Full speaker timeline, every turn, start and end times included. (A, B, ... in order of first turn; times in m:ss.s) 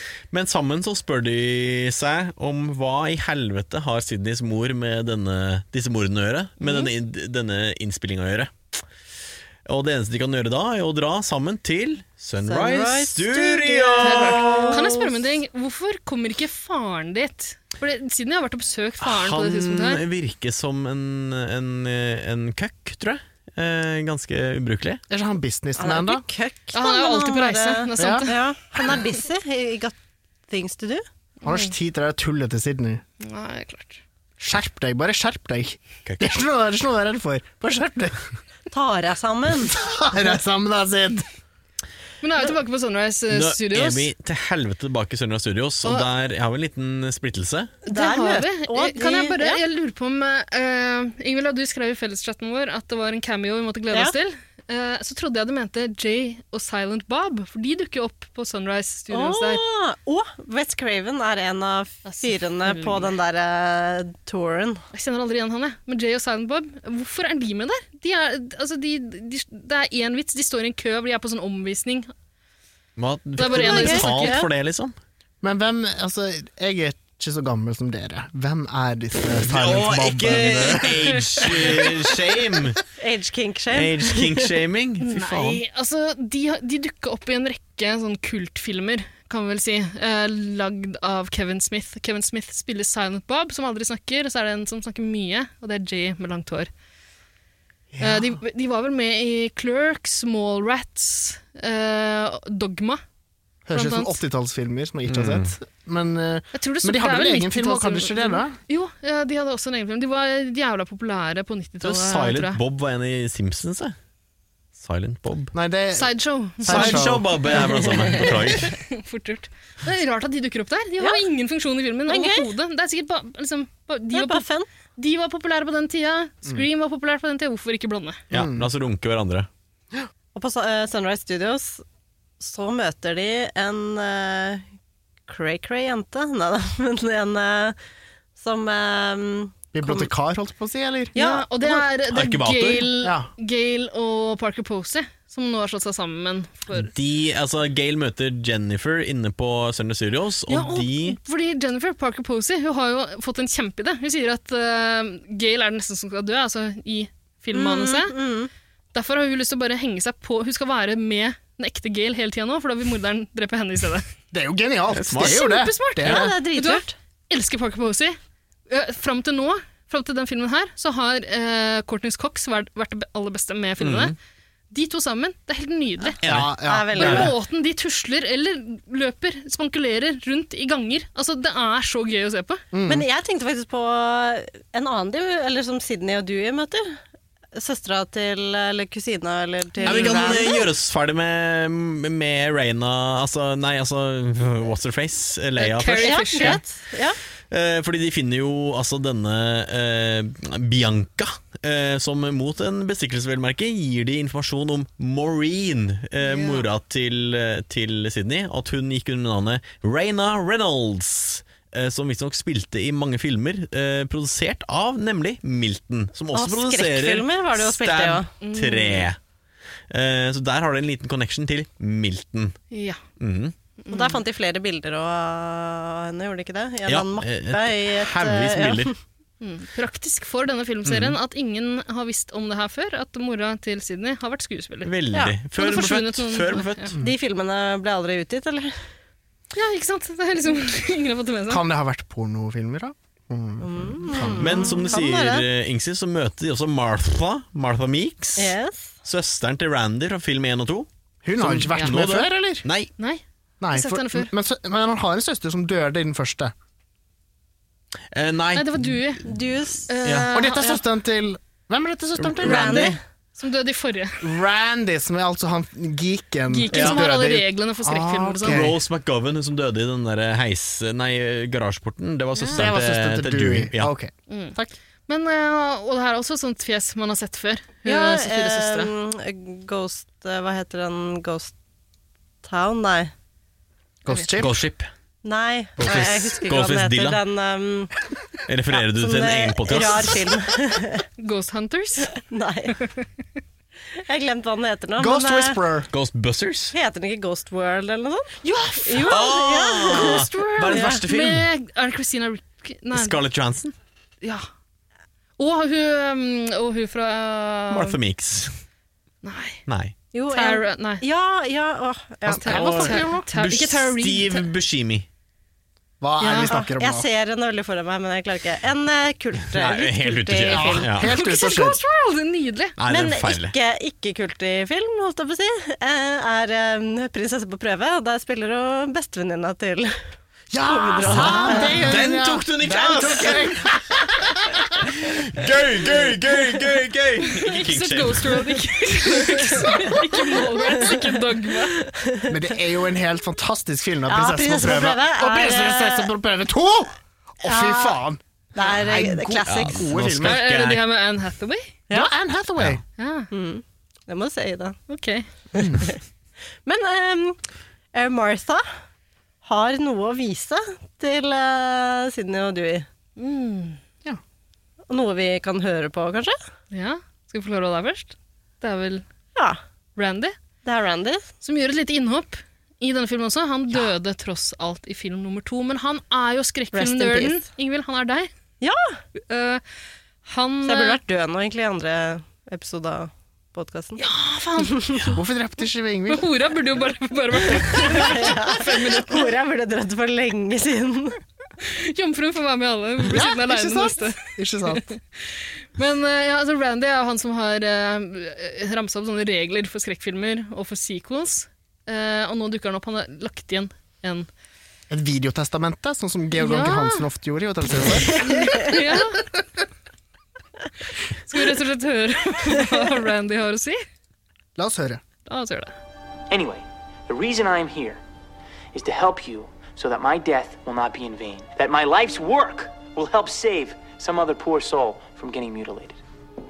0:00.3-0:08.7 A
0:06.6-0:06.9 B
0:09.7-0:14.8 A
0:12.4-0:15.1 C
0:14.0-0:20.0 B
0:19.0-0:25.0 A
0:25.1-0:26.2 D
0:25.8-0:30.0 C
0:26.7-0:28.4 B
0:28.0-0:28.3 D
0:30.5-0:31.0 C
0:31.4-0:33.0 D
0:31.4-0:31.7 B
0:33.2-0:34.0 B
0:34.4-0:38.2 D
0:36.0-0:36.4 A
0:38.7-0:39.8 C
0:39.6-0:41.3 D
0:42.2-0:44.1 B
0:43.3-0:47.8 A
0:47.8-0:49.6 C
0:47.9-0:59.6 B
0:59.1-1:04.8 C
1:02.0-1:03.1 B
1:04.9-1:12.1 B
1:13.0-1:14.9 A
1:13.4-1:14.4 B
1:13.4-1:14.5 C
1:15.4-1:21.9 D
1:19.4-1:22.8 A
1:20.7-1:21.9 B
1:23.0-1:24.5 C
1:23.7-1:25.6 A
1:25.0-1:36.7 B
1:37.9-1:38.4 D
1:38.0-1:43.0 B
1:43.7-1:48.6 D
1:43.7-1:44.2 B
1:45.1-1:45.5 A
1:46.5-1:52.6 B
1:51.8-1:54.0 A
1:54.8-1:55.5 A
1:55.5-1:57.3 D
1:56.0-1:57.2 B
1:56.7-1:58.8 A
1:58.1-2:04.4 B
2:02.1-2:02.5 C
2:04.1-2:04.7 C
2:05.0-2:08.2 B
2:08.3-2:09.5 A
2:08.3-2:08.7 D
2:10.4-2:11.8 C
2:12.4-2:14.6 C
2:15.3-2:17.8 C
2:18.4-2:20.1 C
2:19.7-2:21.2 D
2:21.2-2:21.9 C
2:21.2-2:26.9 B
2:22.1-2:22.9 A
2:23.0-2:23.3 D
2:26.7-2:31.2 A
2:30.5-2:38.2 B
2:37.5-2:38.5 C
2:38.9-2:44.0 B
2:44.3-2:46.3 D
2:44.9-2:45.5 A
2:45.2-2:54.2 B
2:46.0-2:47.0 C
2:53.8-2:54.2 A
2:54.7-2:56.2 B
2:56.2-2:57.3 A
2:56.2-2:57.3 D
2:56.6-2:57.3 C
2:57.0-3:02.6 B
3:02.7-3:03.0 D
3:02.9-3:07.0 C
3:07.5-3:10.6 C
3:09.8-3:10.6 B
3:09.8-3:16.6 A
3:15.6-3:16.6 B
3:16.0-3:17.2 C
3:17.5-3:39.2 A
3:26.2-3:26.7 B
3:36.3-3:38.3 C
3:38.4-3:39.1 B
3:39.9-3:42.6 A
3:42.7-3:43.0 B
3:43.2-3:43.6 A
3:43.8-3:44.2 B
3:43.9-3:49.0 C
3:46.9-3:48.9 A
3:49.4-3:54.9 B
3:50.8-3:51.2 A
3:54.8-3:57.0 A
3:55.6-3:56.9 B
3:57.0-3:58.8 C
3:59.5-4:01.6 B
4:01.5-4:04.6 D
4:03.6-4:05.5 C
4:04.4-4:12.9 A
4:08.4-4:08.9 C
4:11.2-4:12.7 D
4:13.6-4:16.5 D
4:13.7-4:14.3 B
4:18.1-4:19.3 A
4:18.5-4:19.3 B
4:19.2-4:20.0 C
4:19.9-4:20.8 B
4:20.0-4:20.3 A
4:20.3-4:23.0 D
4:22.2-4:23.0 A
4:22.4-4:23.0 C
4:23.4-4:24.2 B
4:24.2-4:28.8 D
4:26.5-4:28.7 B
4:26.7-4:27.1 A
4:28.4-4:33.9 A
4:32.4-4:32.7 B
4:32.5-4:34.8 D
4:34.3-4:34.6 B
4:35.1-4:38.9 B
4:37.8-4:41.5 C
4:42.4-4:43.1 C
4:44.0-4:44.6 D
4:44.1-4:44.4 B
4:44.4-4:44.9 A
4:45.2-4:47.9 C
4:45.8-4:47.2 A
4:48.4-4:50.3 A
4:48.7-4:51.0 C
4:51.2-4:52.2 B
4:52.2-4:52.8 C
4:53.9-4:55.6 C
4:55.0-4:55.9 D
4:55.9-4:56.8 A
4:56.7-5:01.0 C
4:58.4-4:59.3 B
4:59.0-5:01.5 A
4:59.8-5:03.2 B
5:02.9-5:03.7 A
5:05.4-5:08.0 B
5:07.7-5:08.5 A
5:09.2-5:09.6 B
5:09.7-5:09.9 A
5:10.1-5:13.0 C
5:10.3-5:11.0 B
5:12.3-5:13.3 D
5:12.4-5:14.5 B
5:12.4-5:15.1 A
5:16.0-5:17.1 D
5:16.2-5:20.9 C
5:16.3-5:16.5 B
5:19.5-5:21.2 A
5:20.5-5:21.8 D
5:21.0-5:22.8 B
5:22.8-5:23.6 A
5:22.9-5:30.0 C
5:30.5-5:34.6 D
5:30.6-5:32.0 C
5:31.0-5:33.7 A
5:34.8-5:38.6 A
5:37.2-5:41.8 B
5:41.7-5:42.3 C
5:42.3-5:50.4 D
5:44.1-5:46.1 C
5:47.4-5:48.0 C
5:48.5-5:49.9 C
5:49.4-5:50.9 A
5:50.2-5:51.7 B
5:51.9-5:52.8 D
5:53.0-5:53.3 B
5:53.3-5:54.8 C
5:54.9-5:55.3 B
5:55.6-5:55.8 D
5:55.6-5:56.0 C
5:56.6-5:57.4 C
5:57.9-5:58.7 C
5:59.4-6:02.9 C
6:03.2-6:03.8 B
6:04.9-6:06.4 C
6:06.7-6:09.0 B
6:10.0-6:10.4 B
6:10.6-6:11.3 C
6:11.4-6:18.3 B
6:16.7-6:17.4 C
6:18.6-6:19.0 C
6:19.2-6:19.6 B
6:20.2-6:21.0 B
6:20.6-6:24.0 C
6:24.0-6:25.2 B
6:24.7-6:25.1 C
6:25.1-6:26.3 D
6:26.1-6:29.3 B
6:27.6-6:31.2 C
6:31.6-6:44.3 B
6:33.0-6:34.9 D
6:44.9-6:48.9 D
6:46.4-6:47.1 B
6:48.0-6:49.3 B
6:51.3-6:53.8 B
6:54.6-6:55.0 D
6:55.3-6:55.8 B
6:56.3-6:58.0 E
6:58.7-7:06.0 E